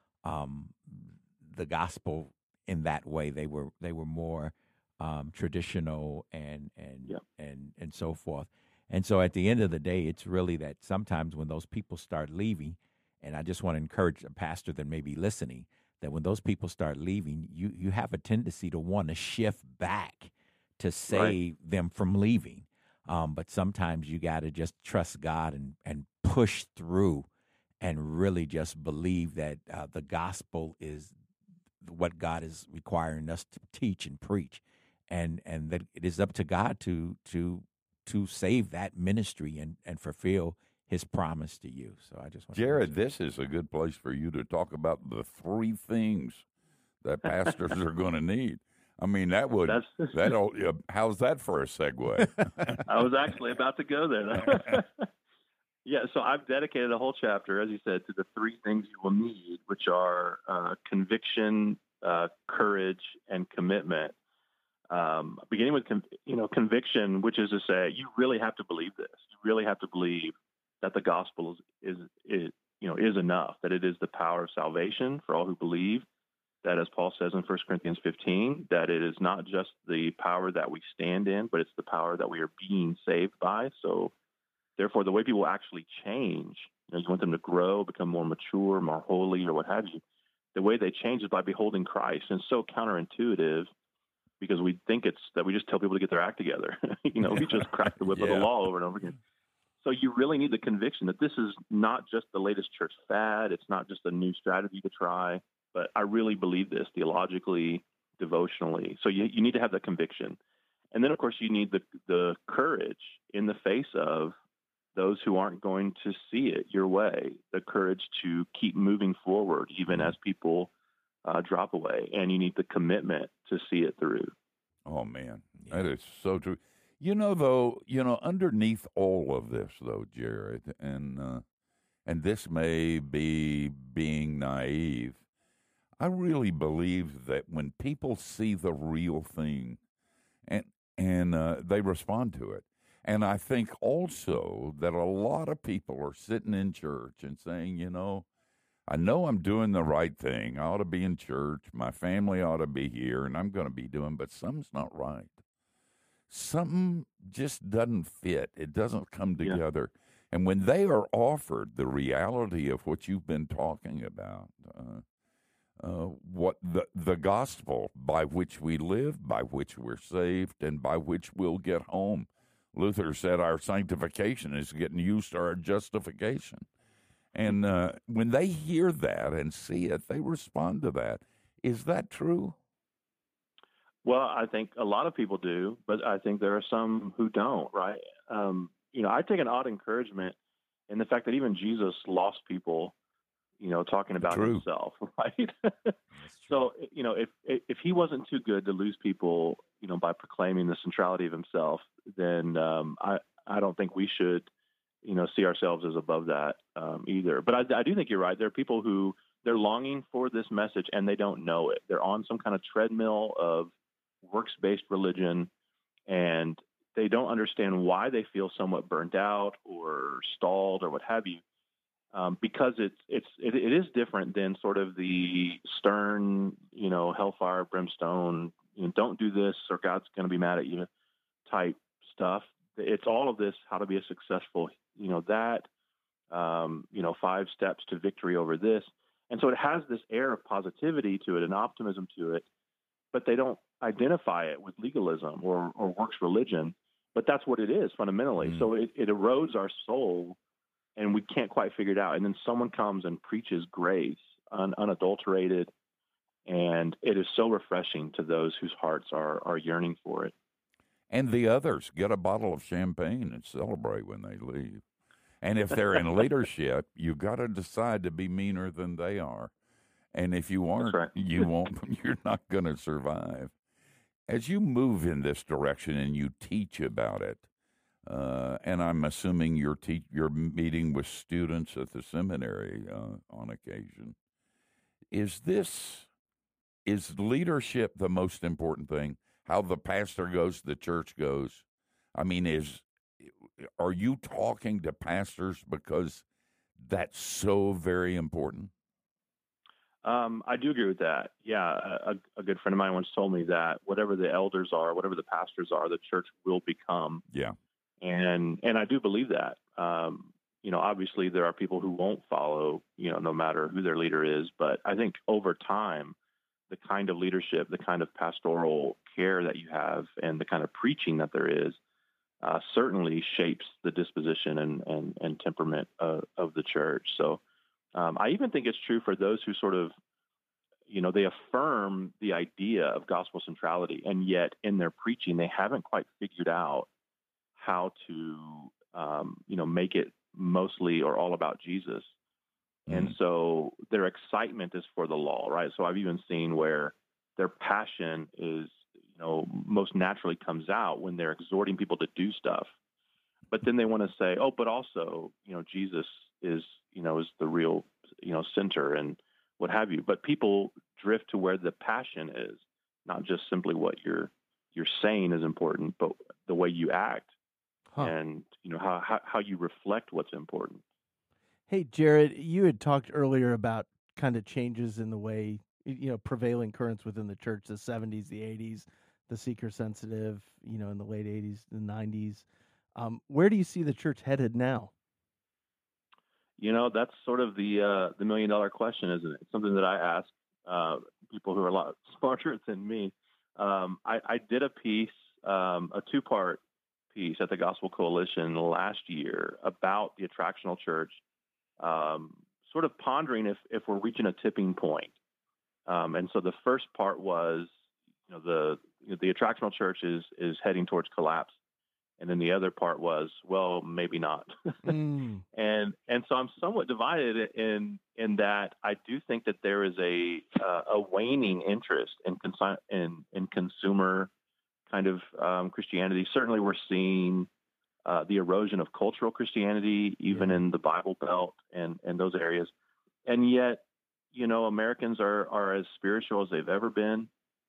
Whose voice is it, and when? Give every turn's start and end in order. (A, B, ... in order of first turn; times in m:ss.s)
0:00.2-0:27.3 A
0:21.1-0:21.4 B
0:27.8-0:31.1 A
0:31.8-0:42.9 A
0:42.5-0:46.4 C
0:47.0-0:52.8 C
0:49.6-0:50.3 B
0:52.8-0:55.1 B
0:55.8-1:04.1 B
1:04.9-1:16.0 B
1:16.6-1:24.1 B
1:24.8-1:30.0 B
1:30.5-1:33.7 B
1:34.4-1:39.2 B
1:38.1-1:38.5 C
1:39.8-1:50.4 B
1:50.9-1:54.3 B
1:54.9-2:00.7 B
2:01.2-2:04.3 B
2:04.8-2:11.4 C
2:12.0-2:15.2 C
2:16.0-2:19.8 C
2:20.4-2:28.2 C
2:28.9-2:35.4 C
2:36.3-2:45.0 C
2:45.8-2:56.7 C
2:57.3-3:02.6 C
3:04.0-3:10.4 B
3:10.9-3:12.9 B
3:13.6-3:15.9 B
3:14.2-3:14.6 C
3:16.2-3:16.5 A
3:16.5-3:24.5 B
3:25.0-3:35.5 B
3:36.1-3:41.4 B
3:42.1-3:50.9 B
3:51.4-3:55.7 B
3:56.3-4:02.4 B
4:03.1-4:10.4 B
4:08.4-4:08.7 C
4:11.0-4:15.7 B
4:16.4-4:20.3 B
4:21.1-4:24.8 C
4:25.4-4:29.5 C
4:30.1-4:33.5 C
4:30.8-4:31.2 B
4:34.3-4:37.4 C
4:38.0-4:44.1 C
4:45.1-4:46.1 C
4:46.8-4:51.6 C
4:52.1-4:56.2 C
4:56.8-4:58.7 C
5:00.0-5:07.2 B
5:07.3-5:07.6 C
5:08.0-5:16.1 B
5:16.7-5:21.8 B
5:22.4-5:27.4 B
5:27.9-5:29.9 B
5:30.9-5:36.9 B
5:37.6-5:42.1 B
5:42.9-5:43.1 C
5:42.9-5:52.7 B
5:53.5-6:07.3 B
6:08.0-6:10.8 B
6:11.7-6:24.9 D
6:26.6-6:36.6 B
6:37.1-6:41.2 B
6:41.8-6:45.1 B
6:45.9-6:47.7 B
6:48.3-6:51.5 B
6:52.2-6:55.0 B
6:54.8-6:55.4 D
6:55.5-7:04.3 B
7:04.9-7:07.5 B
7:08.0-7:12.7 B
7:10.3-7:10.6 D
7:13.2-7:17.3 B